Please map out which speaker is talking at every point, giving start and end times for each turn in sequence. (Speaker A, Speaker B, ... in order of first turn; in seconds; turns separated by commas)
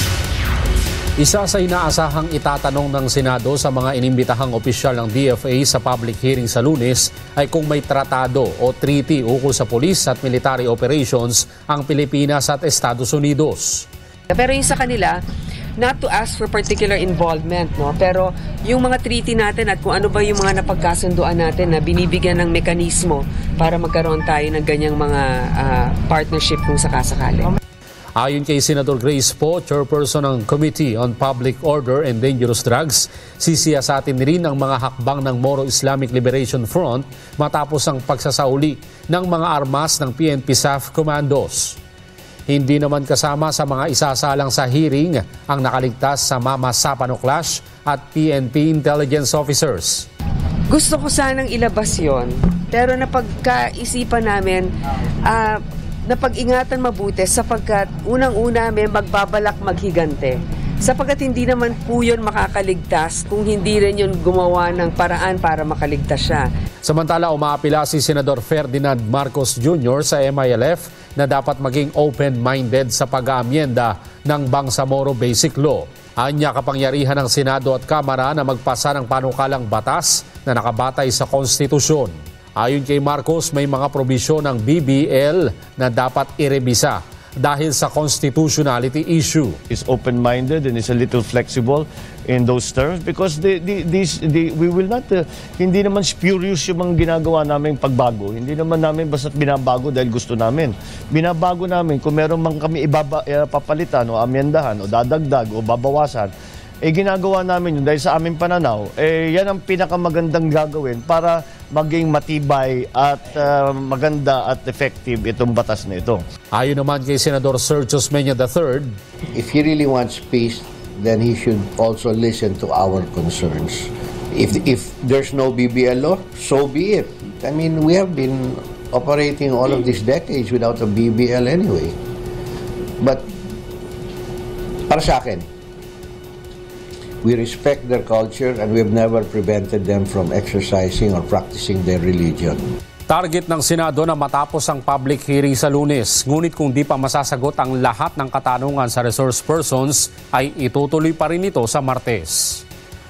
Speaker A: 1.2-13.9, Speaker B: 14.3-15.2, Speaker B: 15.8-27.5, Speaker A: 28.2-41.8, Speaker A: 42.5-50.1, Speaker B: 50.7-54.7, Speaker B: 55.3-66.5, Speaker A: 66.8-89.6, Speaker C: 89.7-106.3, Speaker C: 106.8-116.2, Speaker A: 116.5-119.0, Speaker D: 119.3-131.9, Speaker D: 133.0-133.3, Speaker D: 134.9-135.5, Speaker D: 137.2-142.6, Speaker A: 143.1-152.6